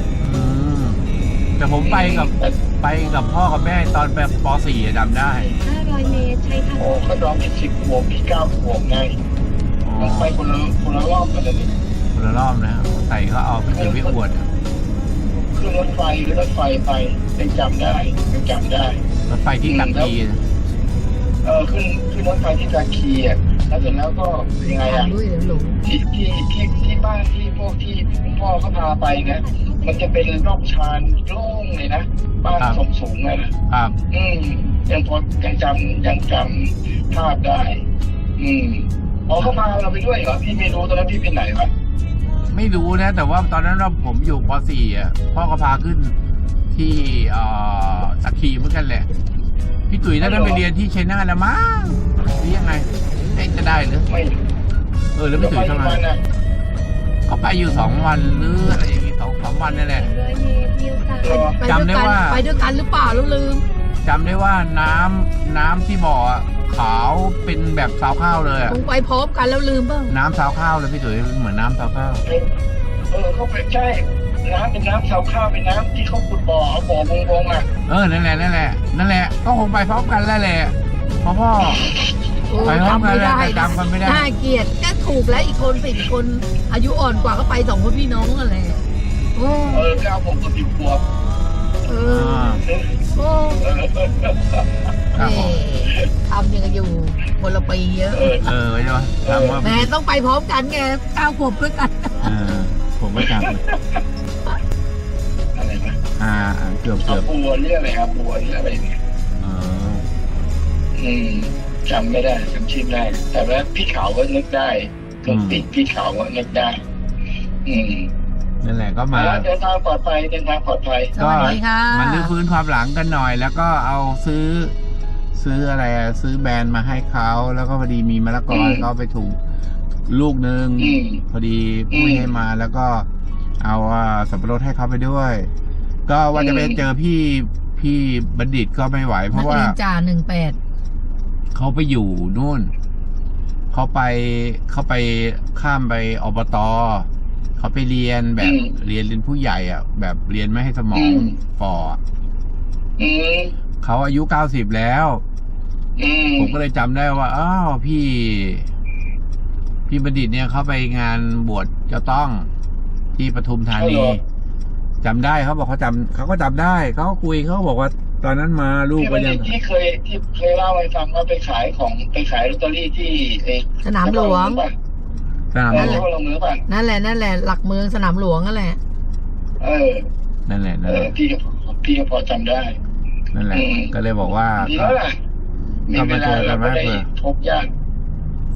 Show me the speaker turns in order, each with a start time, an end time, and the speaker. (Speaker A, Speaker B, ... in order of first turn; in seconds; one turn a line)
Speaker A: 0.2-5.5
Speaker B: 1.8-2.5
Speaker C: 5.3-7.1
Speaker B: 6.8-9.2
Speaker A: 9.8-10.4
Speaker B: 10.0-11.7
Speaker A: 12.1-14.5
Speaker B: 13.7-14.1
Speaker B: 15.5-19.0
Speaker A: 19.3-20.4
Speaker B: 19.6-20.1
Speaker B: 21.4-25.1
Speaker D: 24.6-25.8
Speaker B: 25.8-33.5
Speaker C: 29.3-30.3
Speaker A: 32.6-32.8
Speaker A: 33.7-34.0
Speaker B: 34.1-37.8
Speaker B: 38.4-41.7
Speaker A: 39.4-39.6
Speaker A: 42.5-46.1
Speaker A: 46.7-49.1
Speaker A: 49.9-54.1
Speaker B: 50.2-50.6
Speaker B: 54.1-54.4
Speaker A: 55.1-56.0
Speaker B: 55.4-56.2
Speaker A: 57.2-60.1
Speaker C: 59.6-61.5
Speaker B: 61.2-61.6
Speaker D: 61.2-63.6
Speaker A: 61.6-62.5
Speaker A: 64.0-68.8
Speaker D: 68.6-70.2
Speaker A: 70.1-72.2
Speaker B: 73.1-77.7
Speaker A: 77.8-81.9
Speaker B: 81.6-82.9
Speaker D: 82.5-88.8
Speaker A: 82.6-84.3
Speaker D: 89.3-89.9
Speaker B: 89.7-91.0
Speaker D: 91.8-93.6
Speaker A: 92.0-92.6
Speaker B: 92.6-93.0
Speaker B: 93.6-94.7
Speaker A: 95.1-95.7
Speaker D: 95.1-98.5
Speaker B: 98.1-98.5
Speaker A: 98.4-99.9
Speaker B: 99.2-99.7
Speaker D: 99.6-102.3
Speaker A: 102.2-103.6
Speaker B: 103.2-104.0
Speaker B: 105.5-106.0
Speaker A: 106.2-107.3
Speaker B: 107.0-109.0
Speaker A: 109.4-110.1
Speaker B: 110.9-116.8
Speaker A: 115.3-115.7
Speaker B: 117.6-118.1
Speaker A: 118.6-119.5
Speaker B: 119.1-121.5
Speaker D: 121.1-122.3
Speaker A: 121.2-124.7
Speaker A: 125.3-129.4
Speaker B: 128.5-128.8
Speaker A: 130.1-133.1
Speaker B: 130.8-131.2
Speaker B: 131.9-132.3
Speaker A: 133.6-135.5
Speaker A: 136.1-139.8
Speaker B: 136.3-136.8
Speaker D: 139.3-140.6
Speaker A: 141.5-142.7
Speaker A: 143.7-152.0
Speaker B: 148.4-148.7
Speaker B: 150.9-151.3
Speaker B: 153.0-153.5
Speaker A: 153.8-155.2
Speaker B: 156.0-156.6
Speaker A: 156.4-158.7
Speaker A: 159.9-162.5
Speaker A: 163.1-164.2
Speaker B: 163.7-164.2
Speaker A: 165.0-169.5
Speaker B: 169.0-174.7
Speaker D: 173.8-174.6
Speaker A: 175.5-176.1
Speaker B: 175.7-176.6
Speaker D: 175.7-176.1
Speaker D: 176.7-178.8
Speaker B: 179.6-180.1
Speaker A: 180.4-181.1
Speaker B: 180.8-182.8
Speaker A: 183.3-185.0
Speaker B: 183.5-183.9
Speaker B: 184.4-185.2
Speaker B: 185.9-187.7
Speaker A: 185.9-187.1